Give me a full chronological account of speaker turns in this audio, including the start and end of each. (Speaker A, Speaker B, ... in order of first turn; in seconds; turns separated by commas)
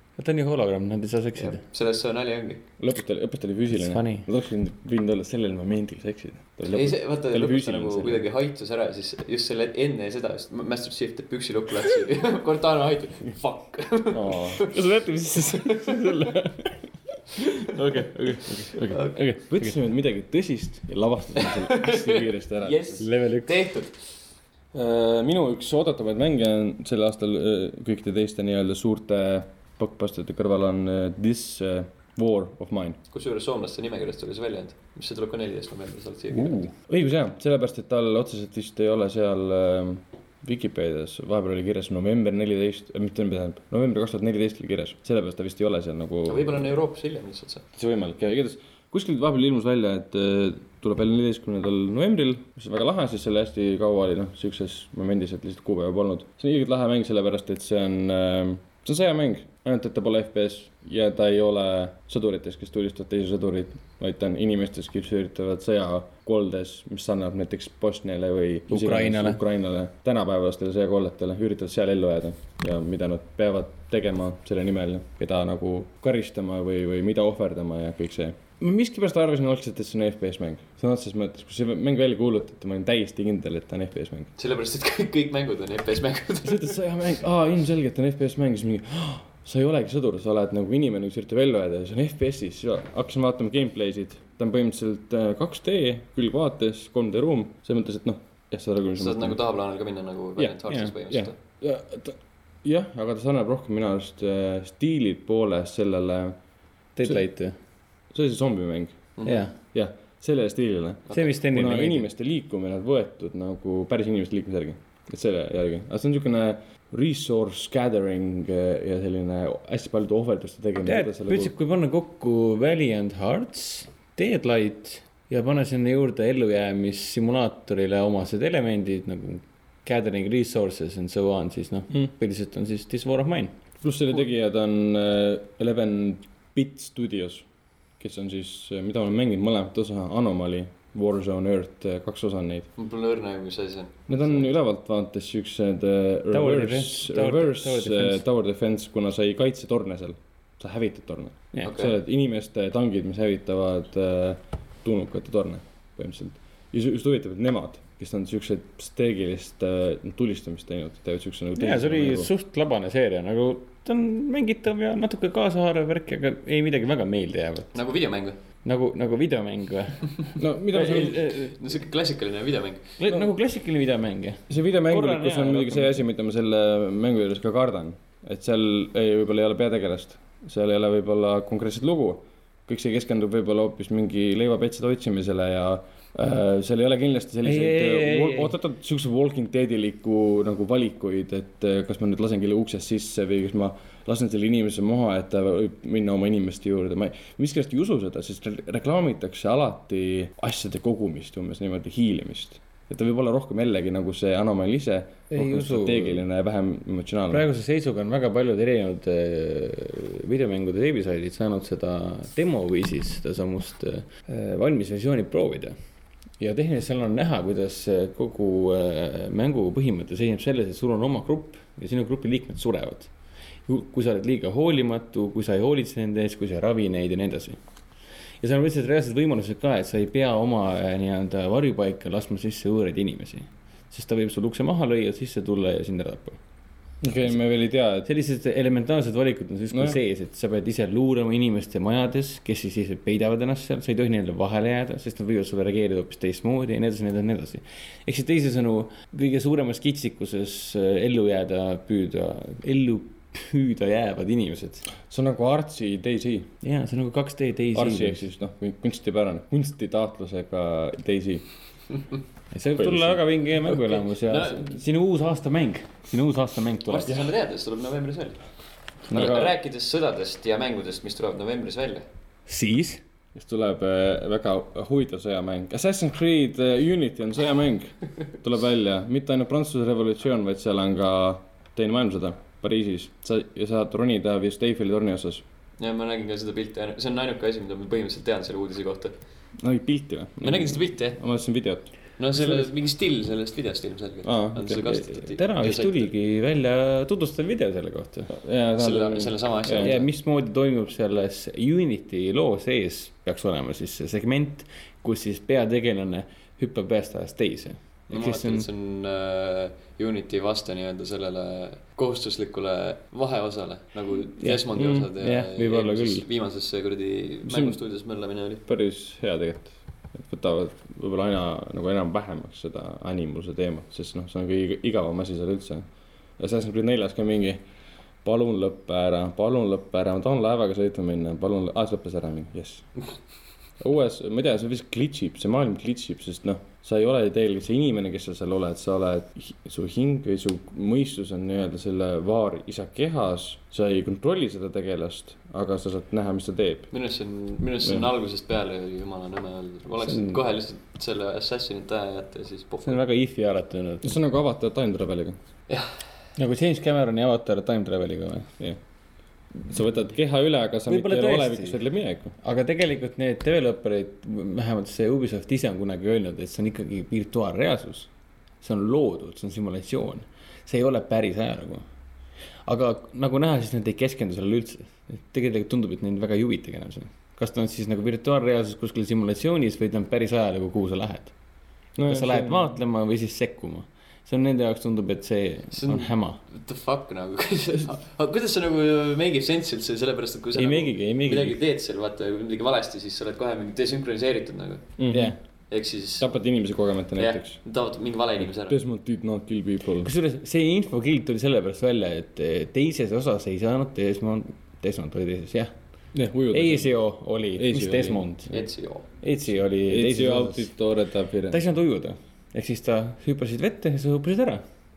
Speaker A: 0.2-1.6, Speaker B: 1.4-2.6, Speaker C: 2.8-8.3, Speaker A: 3.7-4.3, Speaker B: 6.7-14.8, Speaker C: 14.1-14.7, Speaker A: 14.6-16.8, Speaker B: 15.5-16.1, Speaker A: 17.4-19.8, Speaker B: 18.7-19.2, Speaker C: 19.2-23.1, Speaker B: 21.4-24.0, Speaker A: 23.0-23.6, Speaker C: 24.7-33.0, Speaker B: 33.1-36.6, Speaker C: 36.3-46.7, Speaker B: 46.3-47.7, Speaker C: 47.8-84.3, Speaker A: 68.7-69.4, Speaker B: 84.4-86.8, Speaker C: 86.4-99.4, Speaker B: 99.0-101.3, Speaker C: 100.4-106.4, Speaker A: 100.7-100.9, Speaker A: 107.0-107.5, Speaker C: 108.1-109.1, Speaker B: 109.2-109.5, Speaker A: 109.2-109.5, Speaker C: 109.7-121.5, Speaker A: 111.1-112.1, Speaker A: 120.8-133.6, Speaker C: 133.8-137.5, Speaker C: 138.0-142.7, Speaker B: 142.8-144.5, Speaker C: 144.1-162.3, Speaker A: 146.3-148.2, Speaker B: 151.6-152.0, Speaker A: 161.6-167.7, Speaker B: 167.7-168.4, Speaker A: 168.7-171.6, Speaker C: 170.3-171.3, Speaker B: 170.8-173.0, Speaker A: 173.0-176.0, Speaker C: 174.5-207.4, Speaker A: 187.4-188.5, Speaker A: 205.3-206.2, Speaker A: 207.3-215.8, Speaker A: 216.4-223.1, Speaker A: 223.7-227.6, Speaker A: 228.4-236.4, Speaker C: 237.0-238.1, Speaker A: 238.1-254.8, Speaker C: 239.7-240.0, Speaker C: 255.1-256.5, Speaker A: 256.6-258.2, Speaker C: 257.7-261.5, Speaker A: 262.5-267.2, Speaker C: 262.8-263.2, Speaker B: 263.6-264.7, Speaker B: 266.9-268.4, Speaker C: 269.1-269.5, Speaker B: 269.1-272.1, Speaker A: 272.5-273.0, Speaker C: 273.4-285.4, Speaker B: 285.8-289.1, Speaker C: 289.6-292.7, Speaker B: 290.4-291.2, Speaker B: 292.2-296.1, Speaker C: 294.2-294.8, Speaker A: 294.9-298.3, Speaker C: 298.3-299.9, Speaker B: 298.8-300.1, Speaker A: 299.8-308.7, Speaker B: 308.1-318.6, Speaker A: 314.4-316.3, Speaker C: 317.5-317.8, Speaker C: 318.6-325.9, Speaker C: 326.4-327.6, Speaker C: 328.2-332.9, Speaker C: 333.8-346.9, Speaker B: 346.9-353.0, Speaker A: 350.0-350.4, Speaker A: 352.9-354.2, Speaker C: 354.0-355.4, Speaker A: 356.4-358.5, Speaker C: 359.7-362.4, Speaker A: 360.9-361.8, Speaker A: 362.4-368.1, Speaker A: 368.6-371.9, Speaker A: 372.7-381.3, Speaker C: 382.0-382.7, Speaker A: 382.1-386.4, Speaker B: 385.7-395.0, Speaker A: 390.6-391.6, Speaker C: 395.0-395.3, Speaker A: 395.1-395.4, Speaker B: 395.7-396.3, Speaker C: 396.2-397.6, Speaker B: 397.2-398.8, Speaker C: 398.5-400.1, Speaker A: 400.0-405.7, Speaker C: 406.1-406.9, Speaker A: 406.5-408.5, Speaker C: 407.6-408.7, Speaker B: 408.5-409.1, Speaker A: 409.2-410.7, Speaker C: 409.9-411.6, Speaker A: 411.5-414.6